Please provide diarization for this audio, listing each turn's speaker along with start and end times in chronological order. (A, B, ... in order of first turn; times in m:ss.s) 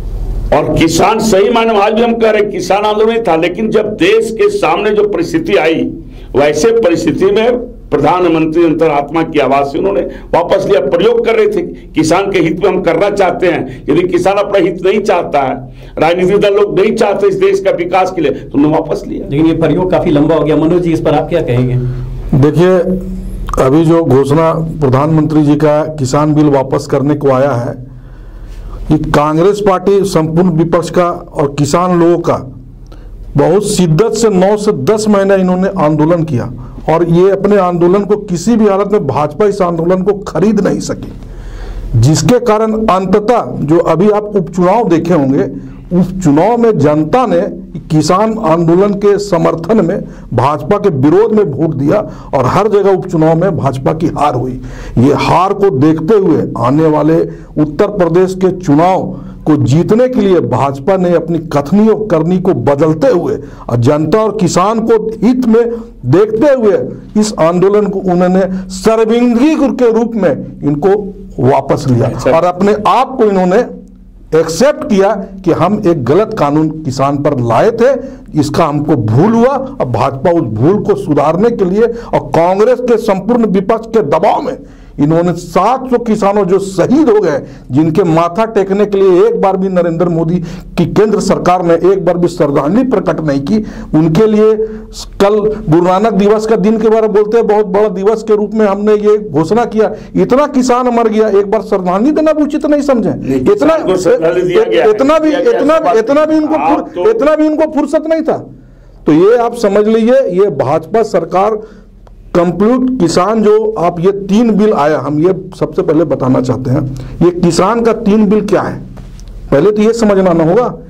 0:00.5-0:19.3 A
0:19.3-0:21.8 B
0:22.3-0:23.0 C
0:23.6-0:27.8 C
0:28.9-0:32.4 C
0:33.3-0:41.1 C
0:42.0-1:13.7 C
1:12.0-1:12.4 A
1:14.3-1:48.4 C
1:43.2-1:47.2 A
1:49.0-1:51.6 C
1:52.3-1:58.8 C
1:59.5-2:00.8 C